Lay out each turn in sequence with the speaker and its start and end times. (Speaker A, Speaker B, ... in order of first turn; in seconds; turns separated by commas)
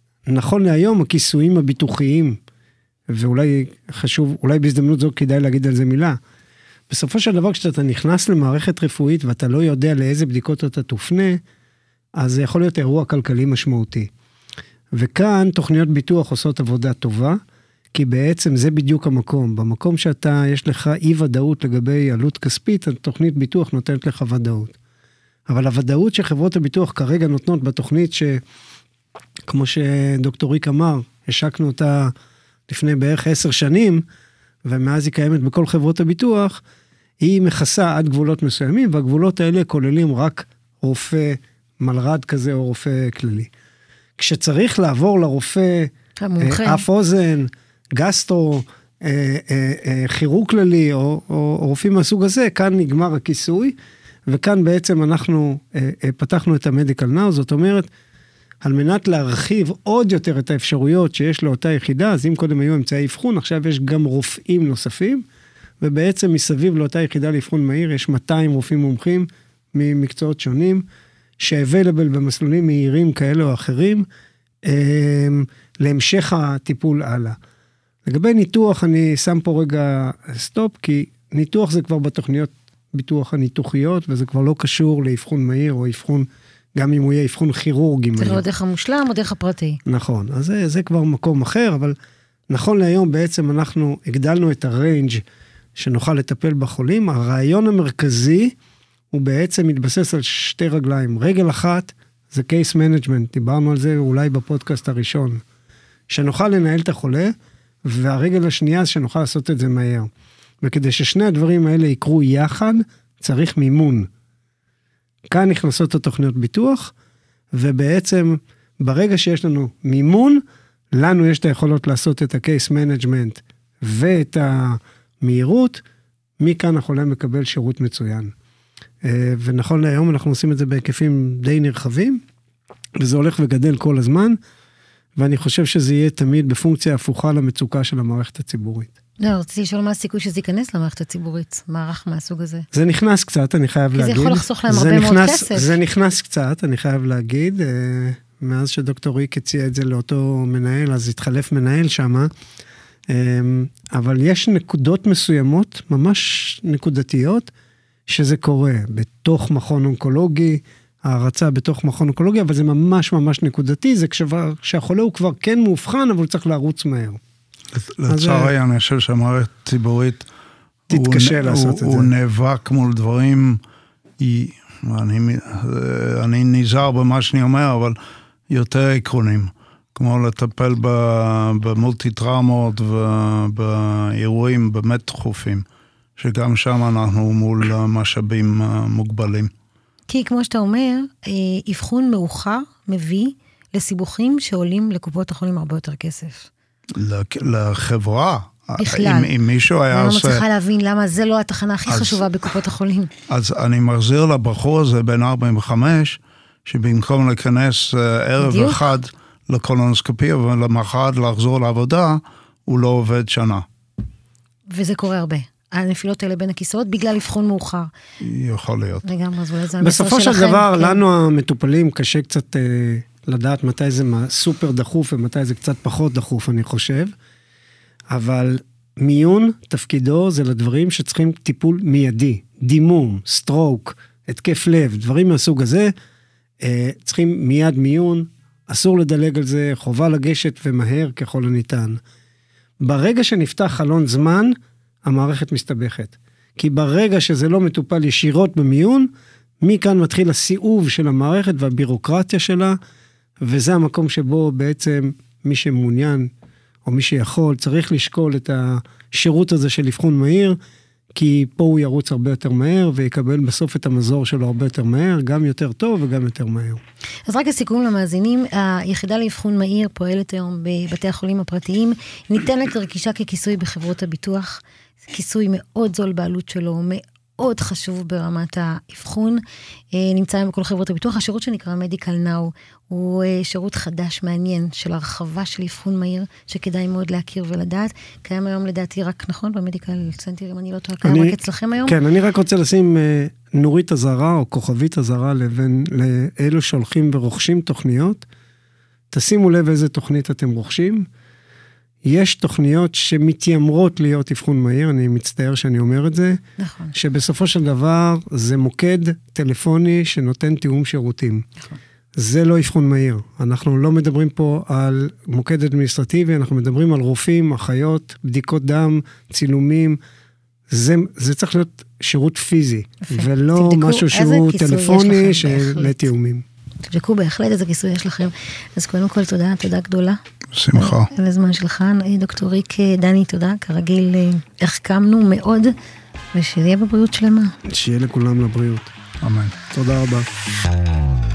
Speaker A: 0.3-2.4, Speaker A: 3.1-6.2, Speaker A: 6.9-11.4, Speaker A: 12.2-14.1, Speaker A: 14.9-17.4, Speaker A: 17.9-24.8, Speaker A: 25.5-28.4, Speaker A: 29.5-32.1, Speaker A: 32.7-34.0, Speaker A: 34.6-36.6, Speaker A: 37.2-43.5, Speaker A: 44.2-53.8, Speaker B: 46.2-46.8, Speaker A: 54.3-57.9, Speaker A: 58.6-65.2, Speaker A: 65.8-70.8, Speaker A: 71.4-74.1, Speaker A: 74.7-77.4, Speaker A: 78.1-88.4, Speaker B: 88.2-89.8, Speaker A: 89.9-92.0, Speaker A: 92.5-95.2, Speaker A: 95.8-98.5, Speaker A: 99.1-105.4, Speaker A: 106.1-107.3, Speaker A: 107.9-110.1, Speaker A: 110.6-114.1, Speaker A: 115.3-116.9, Speaker A: 117.5-120.4, Speaker A: 120.9-125.8, Speaker A: 126.4-128.3, Speaker A: 129.0-132.2, Speaker A: 133.0-134.4, Speaker A: 135.2-138.9, Speaker B: 139.2-142.7, Speaker A: 142.7-152.3, Speaker B: 143.9-145.8, Speaker A: 153.1-157.5, Speaker A: 158.1-167.2, Speaker C: 167.7-170.3, Speaker A: 168.1-168.5, Speaker A: 170.9-172.1, Speaker C: 170.9-173.6, Speaker C: 174.2-178.0, Speaker C: 178.5-185.7, Speaker C: 186.2-189.5, Speaker B: 190.1-196.5, Speaker C: 197.0-200.4, Speaker B: 198.8-199.3, Speaker B: 199.9-203.1, Speaker C: 201.9-202.2, Speaker C: 203.3-213.6, Speaker B: 208.4-208.8, Speaker B: 214.7-217.9, Speaker C: 218.2-219.1, Speaker B: 219.0-221.0, Speaker A: 219.8-227.1, Speaker A: 228.1-235.9, Speaker A: 236.6-242.0, Speaker A: 242.8-249.1, Speaker A: 249.6-252.8, Speaker A: 253.4-256.3, Speaker A: 256.9-260.6, Speaker A: 261.1-266.8, Speaker B: 267.3-279.4, Speaker B: 279.9-292.0, Speaker A: 291.0-298.3, Speaker A: 299.1-301.1, Speaker A: 302.1-306.4, Speaker B: 306.6-307.0, Speaker A: 306.9-311.4, Speaker A: 312.2-320.0, Speaker A: 320.7-326.4, Speaker B: 323.0-326.1, Speaker B: 326.8-330.2, Speaker C: 330.5-331.1, Speaker B: 330.7-335.7, Speaker B: 336.3-337.5, Speaker A: 337.7-338.9, Speaker C: 339.2-339.6, Speaker A: 339.7-340.3